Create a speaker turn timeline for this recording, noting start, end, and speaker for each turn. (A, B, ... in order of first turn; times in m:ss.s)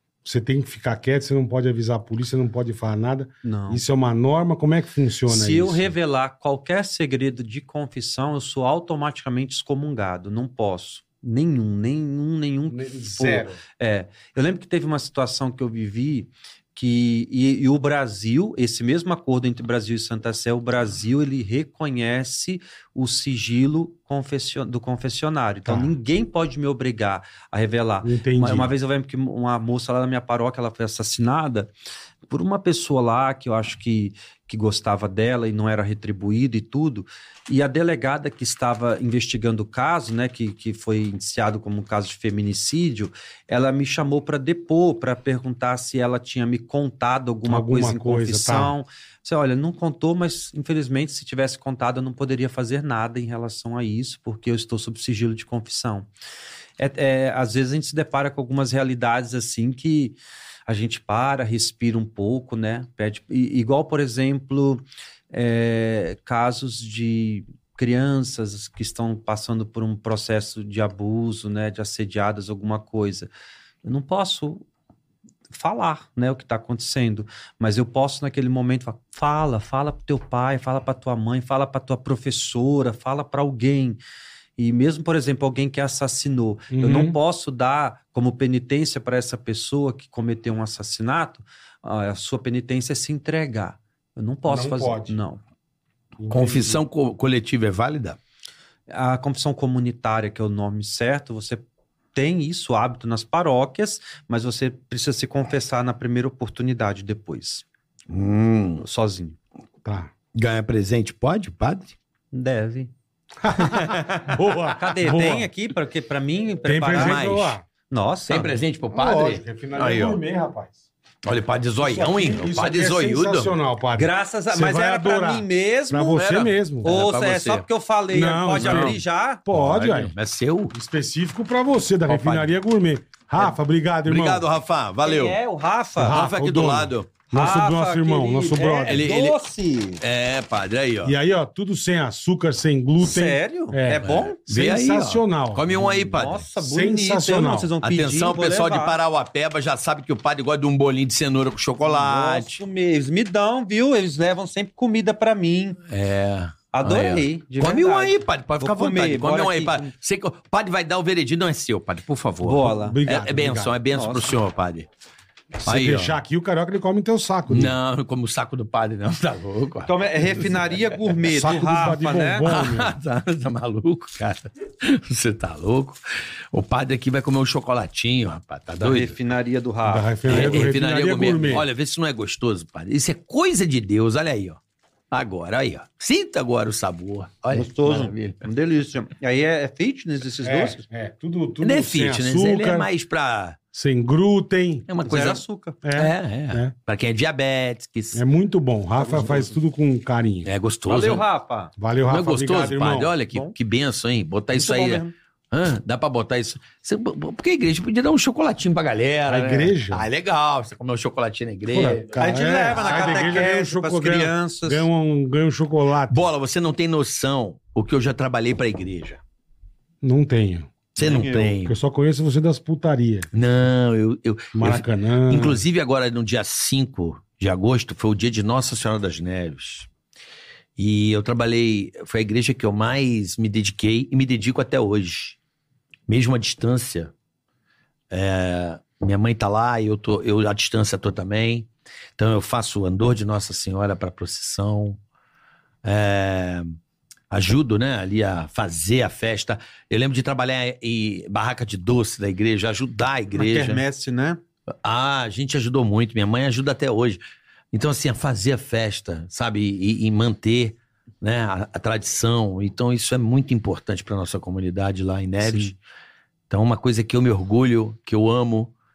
0:00.2-0:05.9 A
0:03.4-0:03.8 B
0:05.3-0:31.7 B
0:12.7-0:13.6 A
0:25.7-0:25.9 A
0:28.0-0:28.8 A
0:32.3-0:56.1 B
0:47.5-0:48.8 A
0:56.8-1:13.3 B
1:13.8-1:14.6 B
1:15.5-1:24.0 B
1:24.6-1:35.4 B
1:26.7-1:27.2 A
1:34.5-1:35.2 A
1:36.2-1:36.8 A
1:36.3-1:38.2 C
1:38.9-1:41.6 B
1:42.2-1:47.6 B
1:48.1-1:48.8 C
1:48.8-1:49.4 B
1:49.8-1:50.1 A
1:50.3-1:52.0 C
1:52.3-1:52.9 B
1:53.4-1:55.5 A
1:54.8-1:57.2 B
1:56.7-1:57.6 A
1:56.9-1:57.6 C
1:57.9-1:58.6 B
1:58.3-2:00.2 C
1:58.9-2:00.8 A
2:01.2-2:03.5 C
2:01.8-2:06.9 A
2:04.0-2:09.4 B
2:06.8-2:07.7 C
2:08.1-2:10.1 A
2:08.6-2:10.7 C
2:10.7-2:14.4 A
2:12.1-2:12.6 C
2:14.0-2:15.4 C
2:15.0-2:16.2 B
2:16.0-2:17.1 C
2:16.0-2:19.1 A
2:17.3-2:20.0 B
2:18.9-2:19.4 C
2:20.0-2:21.2 C
2:21.0-2:27.7 A
2:23.0-2:24.4 B
2:24.0-2:26.4 C
2:26.1-2:29.0 B
2:27.8-2:32.6 C
2:31.8-2:35.8 B
2:35.9-2:44.9 C
2:36.7-2:39.9 B
2:42.4-2:43.0 B
2:42.7-2:43.8 A
2:43.9-2:44.3 B
2:45.6-2:47.7 A
2:45.7-2:46.2 C
2:47.5-2:51.2 C
2:49.8-2:52.6 B
2:51.3-2:53.0 A
2:52.4-2:56.0 C
2:56.5-2:59.2 C
2:58.8-3:00.6 B
2:59.9-3:01.7 A
3:00.3-3:04.6 C
3:05.1-3:08.4 C
3:07.5-3:10.8 B
3:10.4-3:12.9 A
3:11.6-3:13.6 C
3:13.7-3:14.9 A
3:14.9-3:15.4 C
3:15.0-3:15.8 B
3:15.8-3:16.7 A
3:16.0-3:18.2 C
3:18.1-3:20.5 A
3:19.0-3:19.5 C
3:19.1-3:19.4 B
3:20.4-3:21.2 C
3:20.9-3:21.7 B
3:21.8-3:23.1 A
3:22.1-3:32.1 C
3:24.5-3:25.1 B
3:29.3-3:30.1 A
3:31.7-3:36.2 A
3:32.2-3:34.9 B
3:32.7-3:33.4 C
3:36.1-3:39.2 C
3:40.0-3:43.3 A
3:41.0-3:41.8 C
3:41.0-3:41.4 B
3:43.3-3:49.9 C
3:44.5-3:45.6 A
3:50.8-3:55.4 C
3:56.1-3:57.1 C
3:58.1-4:05.0 C
4:05.8-4:06.7 C
4:07.3-4:13.8 C
4:13.3-4:14.4 B
4:14.8-4:17.2 C
4:17.7-4:25.8 C
4:25.4-4:25.7 B
4:26.5-4:28.7 C